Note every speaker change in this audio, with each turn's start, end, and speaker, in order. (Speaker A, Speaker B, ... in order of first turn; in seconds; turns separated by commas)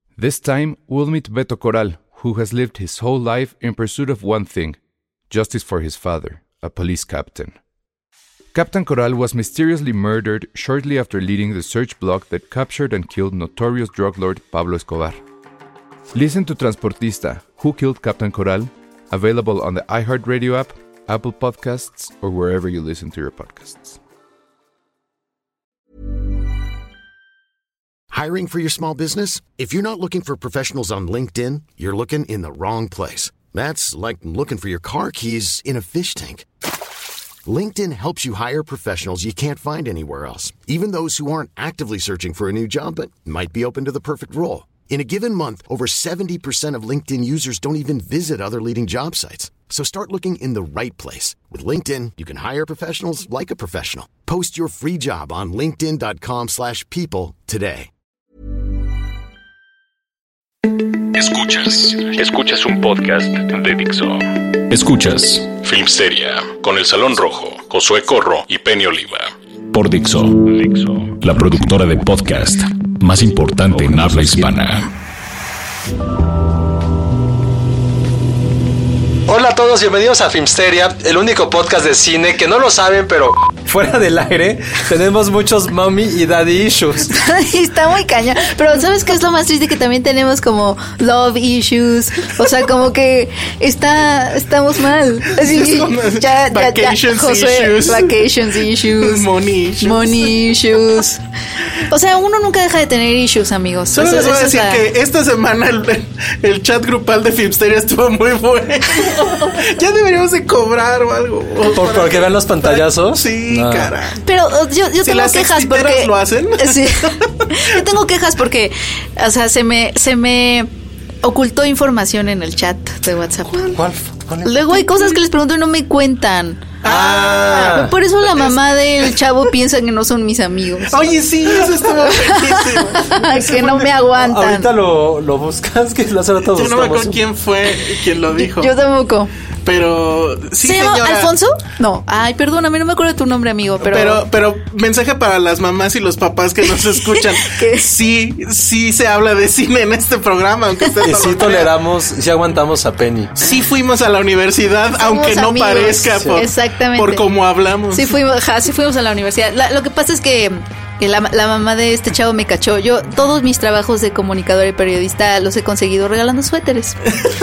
Speaker A: 0.2-4.8, Speaker A: 5.3-7.6, Speaker A: 8.5-15.2, Speaker A: 16.1-24.0, Speaker B: 28.1-36.5, Speaker B: 37.5-57.9, Speaker C: 61.1-74.9, Speaker D: 79.3-87.2, Speaker E: 87.1-99.3, Speaker F: 95.3-100.3, Speaker E: 99.8-101.2, Speaker E: 101.9-104.8, Speaker F: 103.9-114.2, Speaker D: 111.6-114.0, Speaker E: 114.2-120.7, Speaker F: 115.0-117.6, Speaker E: 121.2-123.8, Speaker D: 123.6-124.7, Speaker E: 124.5-126.7, Speaker F: 126.8-128.5, Speaker D: 126.9-127.9, Speaker E: 127.5-134.7, Speaker F: 130.9-133.9, Speaker D: 134.2-137.2, Speaker F: 136.5-138.7, Speaker E: 138.3-139.3, Speaker F: 139.7-141.3, Speaker E: 140.6-144.2, Speaker F: 143.8-151.7, Speaker E: 146.7-147.9, Speaker D: 151.0-153.4, Speaker F: 153.4-158.2, Speaker E: 154.9-157.2, Speaker E: 157.9-167.1